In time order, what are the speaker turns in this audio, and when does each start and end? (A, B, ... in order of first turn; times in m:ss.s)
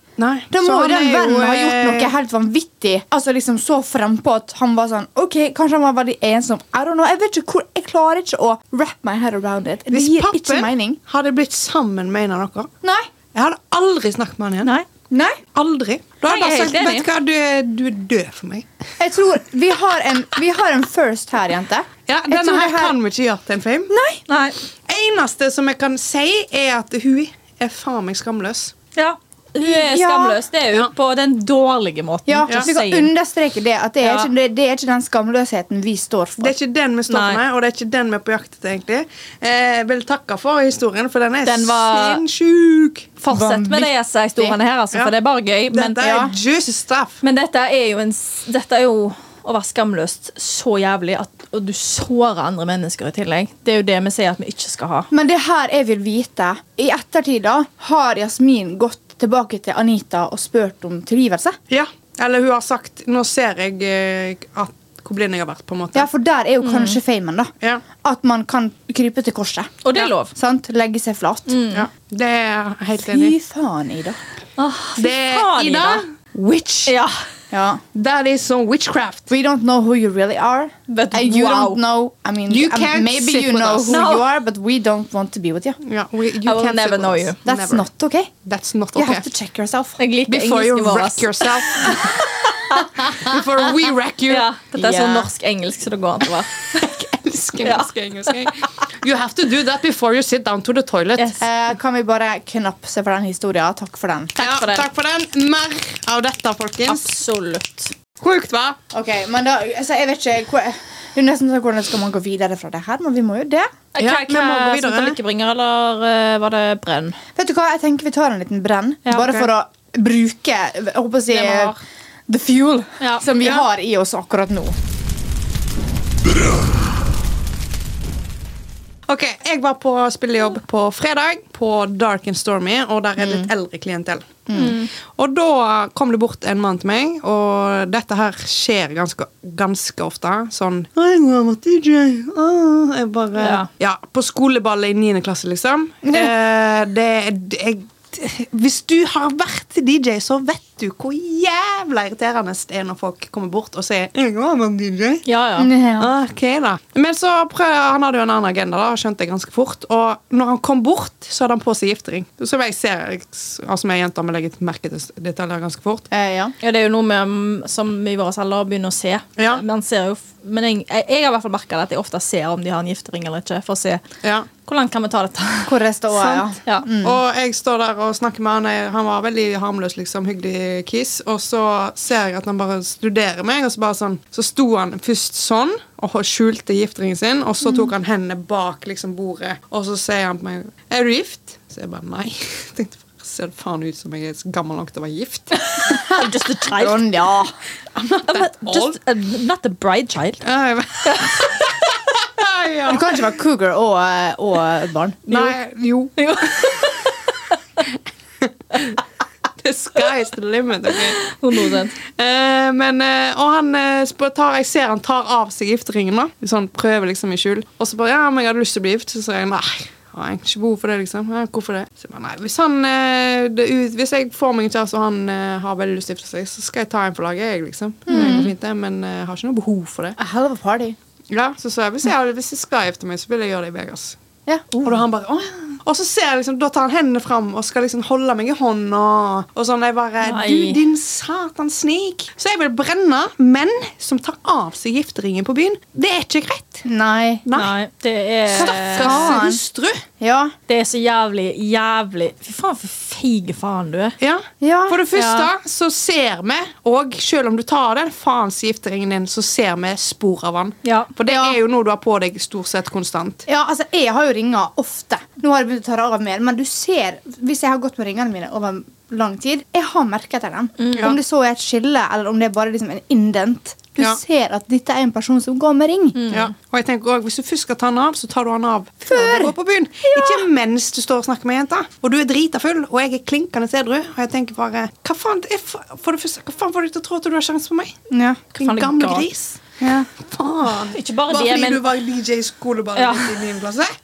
0:00.2-0:02.1 A
0:00.5-0:11.0 B
0:09.9-0:12.7 A
0:12.8-0:13.1 B
0:13.3-0:14.7 A
0:15.1-0:15.4 B
0:15.6-0:18.7 A
0:16.2-0:17.1 C
0:19.0-0:23.0 B
0:22.1-0:23.9 A
0:23.9-0:24.2 B
0:24.3-0:24.6 C
0:24.9-0:28.7 A
0:29.0-0:33.1 C
0:29.6-0:30.4 B
0:32.3-0:36.5 B
0:34.0-0:34.3 C
0:36.4-0:43.1 A
0:37.1-0:37.4 C
0:41.4-0:42.2 C
0:43.2-0:46.0 C
0:43.3-0:44.6 B
0:45.7-0:47.2 A
0:46.0-0:46.3 B
0:47.2-0:55.1 C
0:55.1-1:01.6 B
1:01.7-1:06.1 A
1:05.9-1:07.5 B
1:06.6-1:07.0 C
1:08.0-1:11.6 B
1:09.8-1:10.3 C
1:11.5-1:11.9 C
1:11.7-1:13.3 A
1:13.0-1:14.2 B
1:14.6-1:16.0 C
1:15.0-1:16.9 A
1:16.9-1:17.2 C
1:17.5-1:17.8 B
1:17.9-1:19.3 A
1:19.3-1:25.8 B
1:20.9-1:21.8 C
1:22.5-1:24.0 A
1:23.9-1:24.3 C
1:25.8-1:27.8 A
1:26.4-1:27.4 C
1:27.5-1:28.3 B
1:28.4-1:29.3 A
1:29.0-1:30.0 B
1:30.0-1:32.9 C
1:30.3-1:32.1 A
1:33.2-1:34.5 A
1:34.3-1:36.9 C
1:34.8-1:35.3 B
1:36.8-1:41.3 A
1:37.6-1:38.5 C
1:41.2-1:41.4 C
1:41.4-1:44.4 B
1:44.4-1:44.8 C
1:44.4-1:47.1 A
1:46.9-1:47.9 C
1:48.2-1:48.8 A
1:48.9-1:53.7 B
1:54.0-1:57.2 C
1:54.0-1:55.2 A
1:57.4-2:01.7 B
1:59.1-1:59.4 C
1:59.2-1:59.5 A
2:01.3-2:01.8 C
2:02.3-2:04.8 B
2:09.1-2:14.4 A
2:14.5-2:14.8 B
2:14.5-2:14.9 C
2:15.0-2:35.2 A
2:23.4-2:23.7 C
2:26.0-2:26.3 B
2:35.3-2:35.7 C
2:35.6-2:36.1 B
2:36.0-2:46.1 A
2:46.1-2:46.5 B
2:46.6-2:54.0 C
2:49.4-2:49.6 A
2:54.2-2:54.5 A
2:54.7-2:56.8 C
2:55.7-2:57.2 B
2:57.0-3:15.6 A
3:15.6-3:17.1 C
3:16.7-3:17.5 B
3:18.0-3:19.0 A
3:18.3-3:20.4 C
3:20.4-3:23.2 A
3:21.0-3:21.6 C
3:22.9-3:25.5 B
3:25.3-3:26.9 A
3:26.2-3:27.3 C
3:28.4-3:28.9 A
3:29.6-3:31.2 A
3:30.9-3:31.9 C
3:32.0-3:50.2 A
3:48.1-3:48.5 B
3:48.1-3:48.4 C
3:50.2-3:51.0 B
3:51.3-3:54.2 A
3:54.5-3:54.9 B
3:54.8-4:06.8 A
4:00.2-4:00.8 C
4:06.8-4:07.5 B
4:07.5-4:07.7 A
4:07.6-4:09.4 C
4:08.5-4:10.0 A
4:08.6-4:09.6 B
4:10.2-4:10.5 B
4:10.7-4:14.2 C
4:14.2-4:23.4 A
4:14.6-4:15.0 B
4:15.1-4:15.5 C
4:20.8-4:21.1 C
4:21.3-4:21.6 B
4:23.5-4:36.3 B
4:30.8-4:31.1 C
4:36.2-4:36.5 C
4:36.3-4:48.0 A
4:39.1-4:39.5 B
4:40.1-4:40.4 B
4:48.1-4:48.4 B
4:48.6-4:49.3 C
4:48.6-4:49.6 A
4:49.8-4:50.1 B
4:50.1-4:54.0 A
4:50.9-4:51.8 C
4:53.0-4:53.4 C